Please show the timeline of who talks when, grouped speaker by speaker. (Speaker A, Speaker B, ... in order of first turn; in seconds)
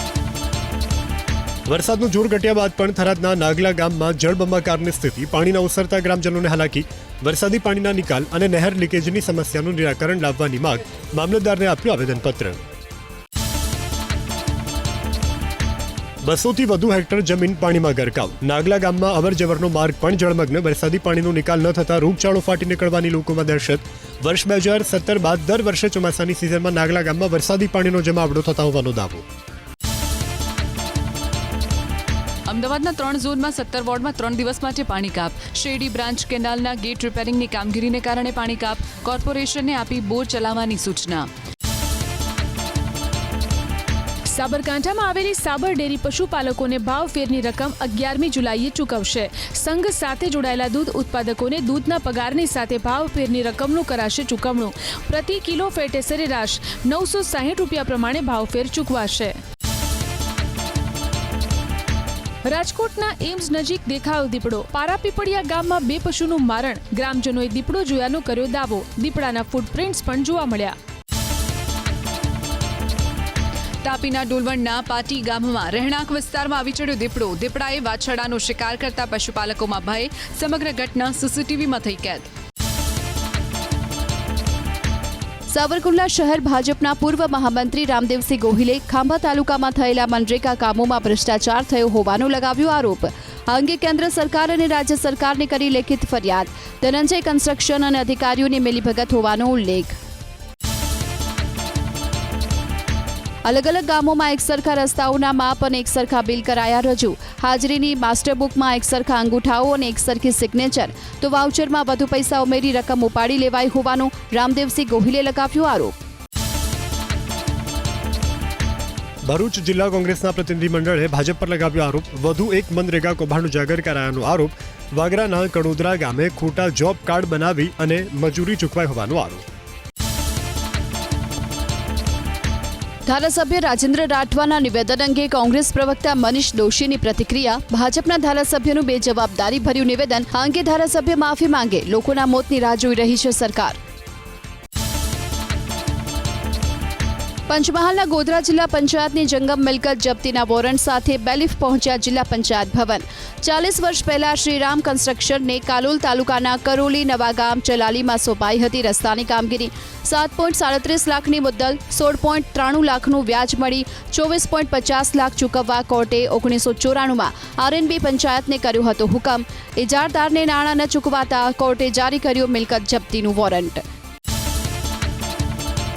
Speaker A: 1.7-12.6, 16.2-29.2, 119.2-129.4
Speaker B: 32.5-41.3, 73.8-82.3
Speaker C: 44.3-59.4, 62.5-70.7
Speaker D: 85.5-100.0, 103.4-115.9, 133.1-143.8, 147.5-173.8